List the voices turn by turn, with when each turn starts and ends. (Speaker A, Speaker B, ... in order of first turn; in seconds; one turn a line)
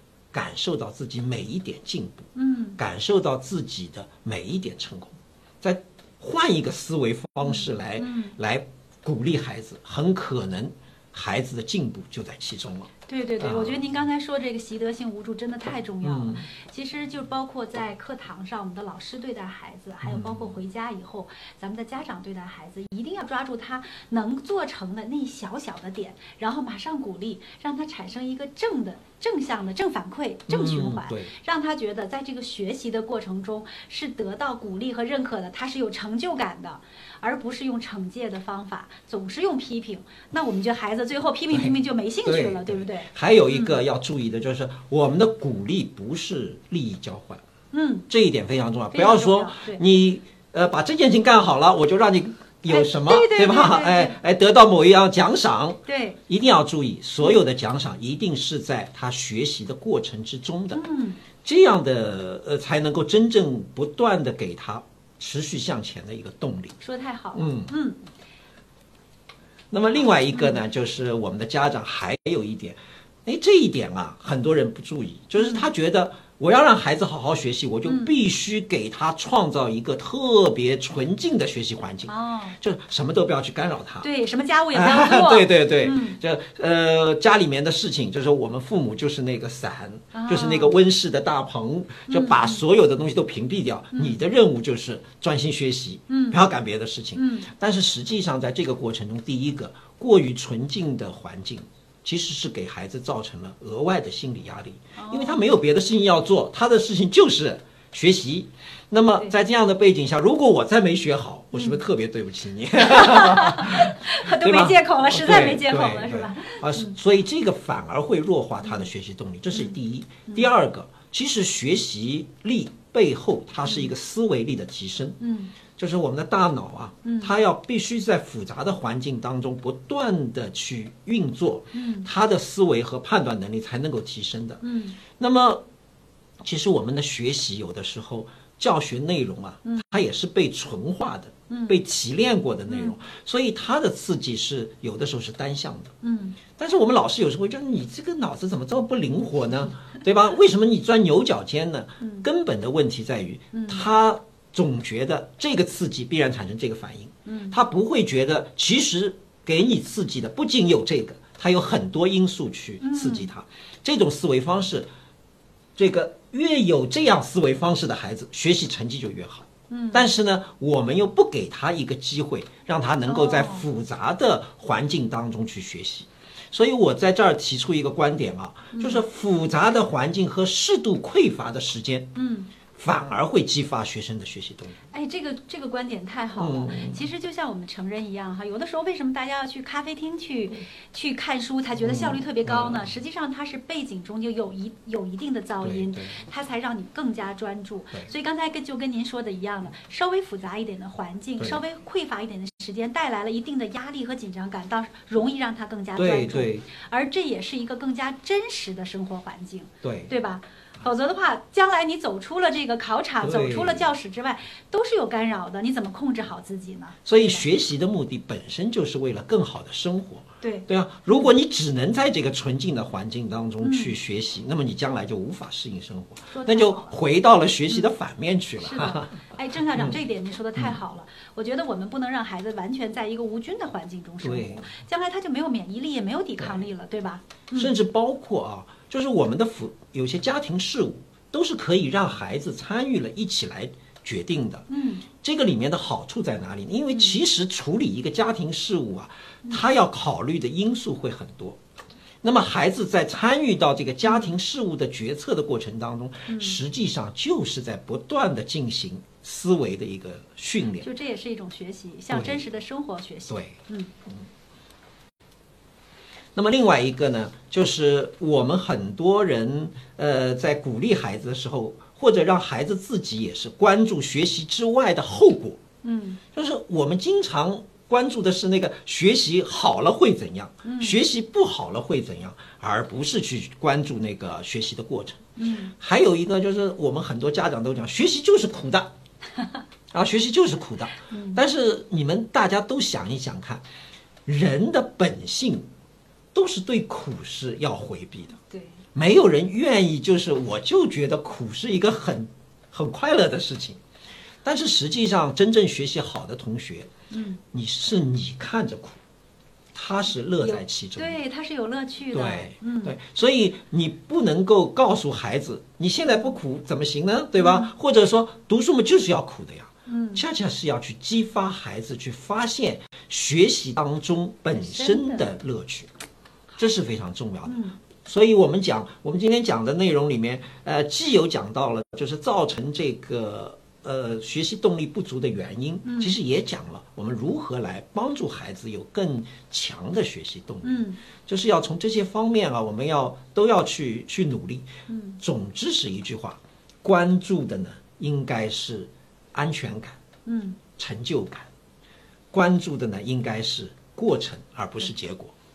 Speaker A: 0.3-13.8
Speaker B: 2.3-2.8
Speaker B: 7.4-8.3
Speaker B: 13.1-43.8
Speaker A: 16.0-16.4
Speaker A: 20.0-20.6
Speaker A: 30.5-31.3
Speaker A: 41.5-47.4
Speaker B: 47.7-48.1
Speaker A: 48.1-60.8
Speaker B: 48.9-49.8
Speaker B: 52.7-54.1
Speaker B: 55.9-56.2
Speaker B: 60.7-61.2
Speaker A: 61.4-66.8
Speaker B: 66.8-68.0
Speaker A: 67.3-67.7
Speaker A: 69.7-84.1
Speaker B: 70.3-70.6
Speaker B: 75.3-75.7
Speaker B: 77.8-78.1
Speaker B: 82.1-82.6
Speaker B: 84.0-86.2
Speaker A: 84.7-125.2
Speaker B: 90.1-90.7
Speaker B: 92.1-92.6
Speaker B: 93.9-94.2
Speaker B: 96.1-96.4
Speaker B: 97.2-97.5
Speaker B: 105.0-105.4
Speaker B: 111.5-111.8
Speaker B: 112.8-117.0
Speaker B: 118.6-118.9
Speaker B: 125.2-125.5
Speaker A: 125.8-134.6
Speaker B: 127.0-127.3
Speaker B: 131.7-132.1
Speaker B: 134.6-135.0
Speaker A: 135.2-135.6
Speaker A: 136.4-145.9
Speaker B: 141.5-141.8
Speaker B: 142.7-142.9
Speaker B: 146.0-146.4
Speaker A: 146.6-164.9
Speaker B: 152.0-152.3
Speaker B: 153.5-153.8
Speaker B: 157.2-157.6
Speaker B: 162.8-163.3
Speaker A: 165.8-182.1
Speaker B: 169.7-170.1
Speaker B: 173.0-173.7
Speaker B: 178.7-179.0
Speaker B: 182.1-182.5
Speaker A: 182.8-184.8
Speaker B: 184.9-217.4
Speaker A: 186.4-187.1
Speaker A: 191.8-192.9
Speaker A: 195.6-196.2
Speaker A: 205.9-206.7
Speaker A: 209.8-210.1
Speaker A: 213.2-213.9
Speaker A: 217.1-229.2
Speaker B: 220.4-221.3
Speaker B: 223.6-223.9
Speaker B: 226.3-226.9
Speaker B: 228.6-237.8
Speaker A: 229.7-230.0
Speaker A: 234.2-234.7
Speaker A: 237.5-244.7
Speaker B: 244.7-245.1
Speaker A: 245.2-251.6
Speaker B: 246.9-247.2
Speaker A: 252.2-260.9
Speaker B: 254.1-254.3
Speaker B: 256.3-256.6
Speaker B: 260.8-263.9
Speaker A: 262.1-262.4
Speaker A: 263.3-263.6
Speaker A: 266.3-275.6
Speaker B: 275.8-276.2
Speaker A: 276.3-285.3
Speaker B: 280.6-281.0
Speaker B: 285.4-285.7
Speaker A: 285.8-288.9
Speaker A: 289.9-293.6
Speaker B: 291.1-291.4
Speaker A: 294.2-295.6
Speaker A: 296.3-298.4
Speaker B: 298.4-298.8
Speaker A: 298.9-303.8
Speaker A: 304.4-306.9
Speaker B: 307.1-307.4
Speaker A: 307.5-309.0
Speaker A: 309.7-311.2
Speaker B: 310.4-312.9
Speaker A: 312.1-325.9
Speaker B: 317.4-317.7
Speaker B: 319.9-320.2
Speaker B: 324.5-325.3
Speaker A: 326.6-344.7
Speaker B: 327.4-327.8
Speaker B: 335.8-336.1
Speaker B: 340.6-341.0
Speaker B: 344.9-345.2
Speaker A: 345.2-350.0
Speaker B: 350.2-350.6
Speaker A: 350.8-351.5
Speaker A: 352.3-355.3